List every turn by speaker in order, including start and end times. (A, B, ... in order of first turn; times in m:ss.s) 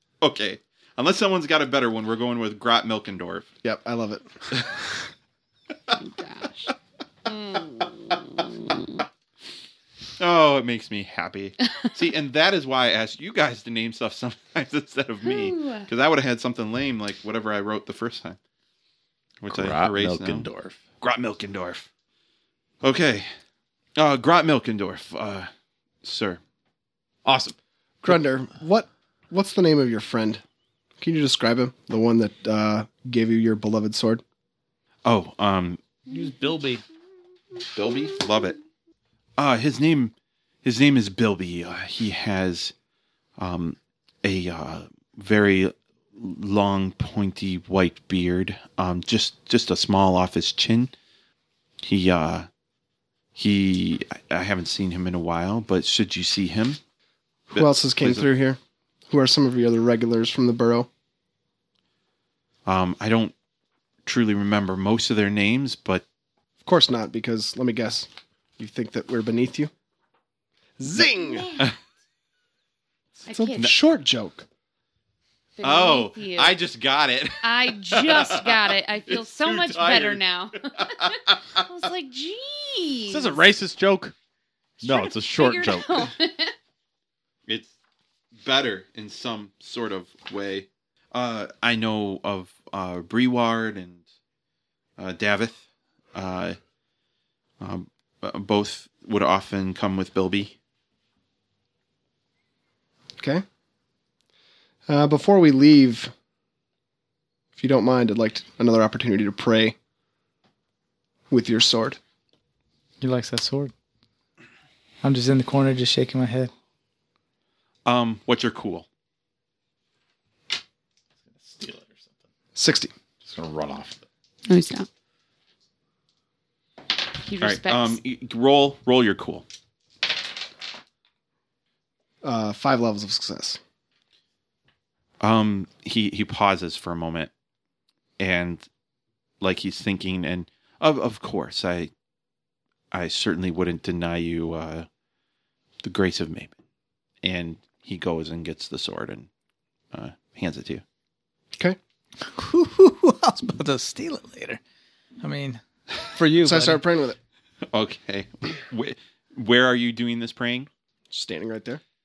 0:00.2-0:03.5 A
0:03.6-0:04.5 B
0:05.9-0:06.7 C
0:07.3-0:09.0 C
0:10.2-0:18.4 A
0:15.3-0:15.9 C
0:19.4-0:20.5 A
0:19.5-0:20.8 D
0:21.0-0:21.9 A
0:22.8-0:23.3 A
0:24.0-0:25.5 A
0:26.0-0:26.4 A
0:27.2-0:27.6 D
0:28.0-0:30.4 B
0:31.0-0:34.2 B
0:35.0-0:35.8 A
0:36.1-0:36.8 E
0:37.7-0:38.6 A
0:39.4-0:42.7 A
0:43.4-0:50.9 A
0:51.8-0:52.5 A
0:53.4-0:56.8 A
0:57.5-0:58.3 A
0:57.5-1:00.9 B
1:02.7-1:03.3 A
1:04.0-1:06.0 A
1:06.6-1:09.7 B
1:10.8-1:11.6 B
1:13.2-1:14.4 B
1:13.3-1:13.7 C
1:15.6-1:16.6 C
1:15.6-1:20.2 A
1:17.4-1:23.4 C
1:20.7-1:21.6 A
1:23.1-1:24.2 D
1:24.8-1:26.5 C
1:24.8-1:26.1 D
1:27.5-1:27.7 A
1:28.4-1:34.0 A
1:35.0-1:36.6 A
1:37.6-1:40.5 A
1:43.2-1:43.4 B
1:44.9-1:46.1 B
1:47.6-1:49.8 B
1:51.3-1:52.0 B
1:53.0-1:53.7 E
1:55.0-1:56.5 E
1:57.9-1:58.9 A
2:01.4-2:02.1 D
2:02.6-2:02.9 B
2:03.2-2:04.0 D
2:04.5-2:04.9 C
2:07.2-2:08.0 C
2:07.4-2:09.4 A
2:12.2-2:13.6 B
2:15.2-2:17.3 A
2:18.2-2:18.7 A
2:19.4-2:21.9 A
2:22.9-2:24.9 A
2:25.8-2:26.5 A
2:27.2-2:29.3 A
2:29.9-2:30.8 A
2:32.2-2:34.6 E
2:35.2-2:36.8 E
2:36.4-2:37.2 B
2:37.7-2:40.7 A
2:41.1-2:41.8 B